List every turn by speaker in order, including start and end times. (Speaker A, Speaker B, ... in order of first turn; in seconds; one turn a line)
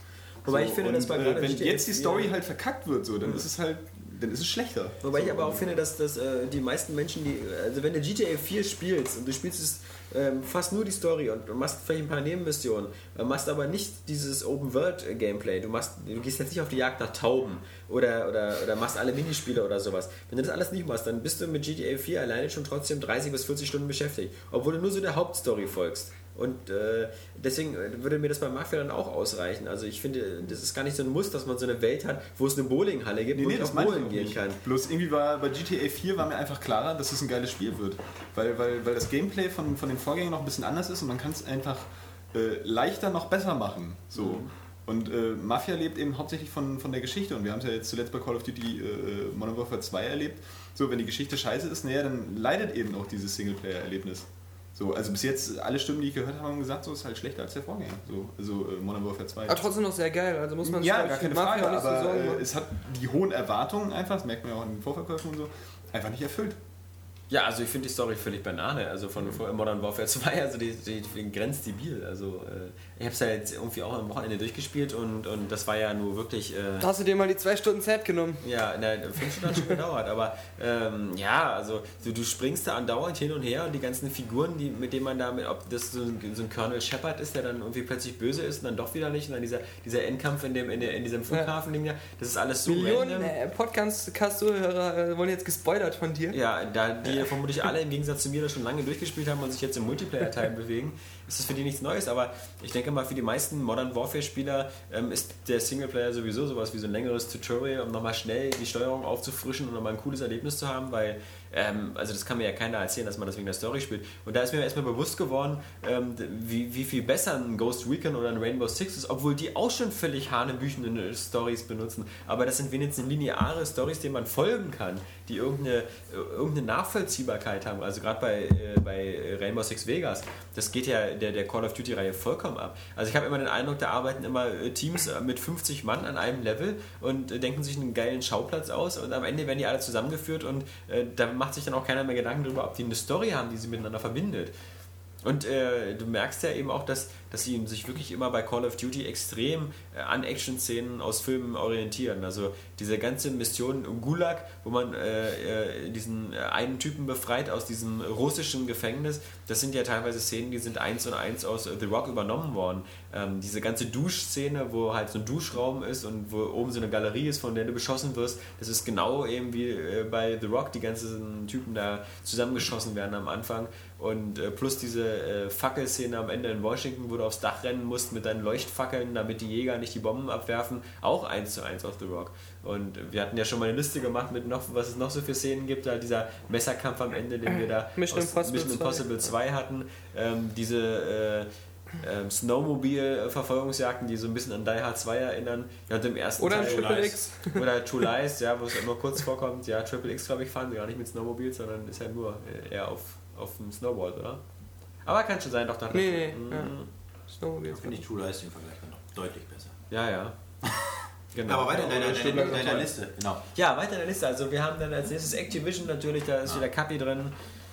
Speaker A: 0.4-2.3
Speaker B: 0.4-5.7
Speaker A: 5.0-34.6
Speaker B: 33.3-59.7
Speaker A: 44.1-44.5
Speaker C: 59.5-62.4
Speaker B: 60.6-66.6
Speaker A: 67.3-76.9
Speaker C: 76.8-78.4
Speaker A: 78.4-93.3
Speaker C: 92.7-96.3
Speaker A: 96.3-144.5
Speaker A: 145.2-204.4
Speaker C: 188.0-189.0
Speaker C: 196.4-197.6
Speaker D: 196.5-197.2
Speaker A: 205.0-206.9
Speaker C: 205.9-206.7
Speaker C: 207.3-208.0
Speaker D: 207.7-209.7
Speaker A: 209.9-210.3
Speaker A: 211.3-212.9
Speaker D: 211.5-213.4
Speaker A: 213.5-217.3